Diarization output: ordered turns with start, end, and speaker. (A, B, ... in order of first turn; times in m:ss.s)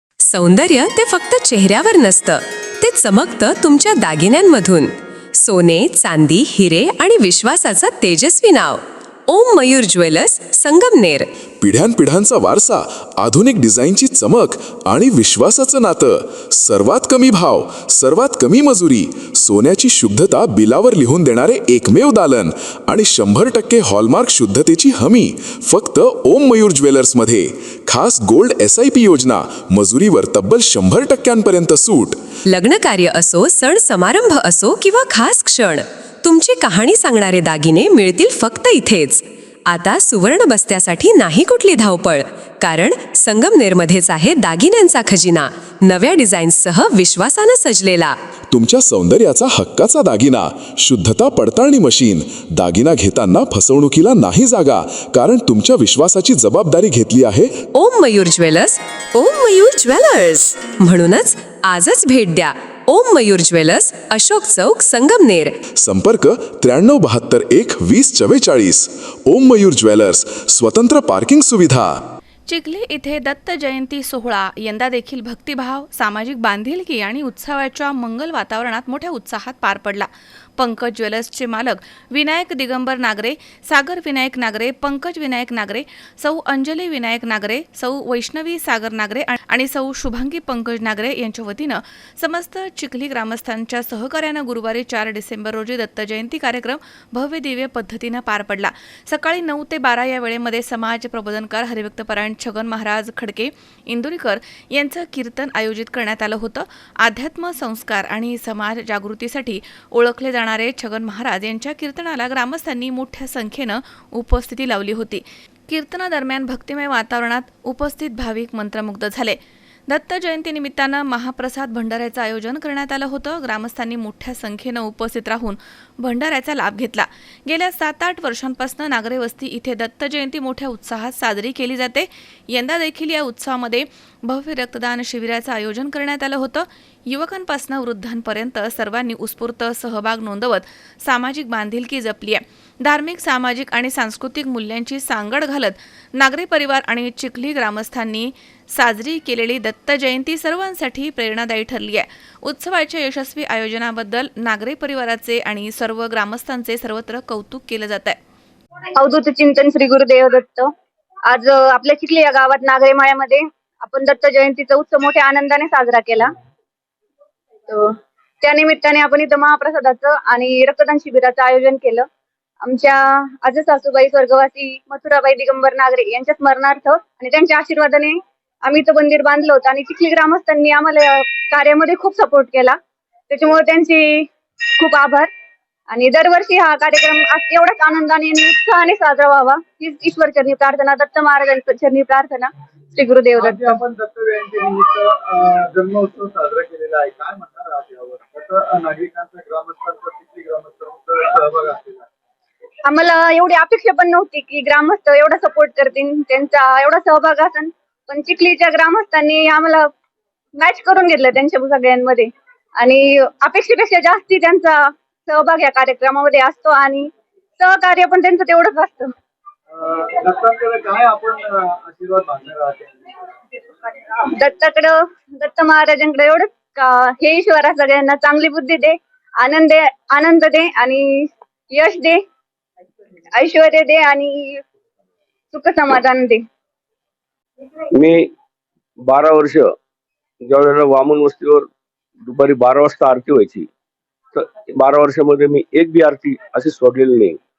0:00.3-0:11.3 A
0:11.6-0:32.2 B
0:32.5-0:48.2 A
0:48.5-0:57.6 B
0:57.7-1:05.5 A
1:05.8-1:11.9 B
1:12.5-2:38.2 C
2:39.0-2:40.7 D
2:41.3-2:46.3 D
2:48.4-2:52.1 D
2:52.6-3:02.8 D
3:03.3-3:04.3 D
3:04.8-3:05.3 D
3:05.9-3:13.8 D
3:13.3-3:22.1 E
3:22.9-3:29.9 D
3:30.6-3:39.1 D
3:39.7-3:42.9 E
3:44.3-3:52.2 D
3:53.3-3:54.6 D
3:55.5-3:56.4 D
3:57.9-3:58.3 F
3:59.0-3:59.7 F
4:00.4-4:01.7 F
4:02.2-4:03.7 F
4:04.3-4:07.4 F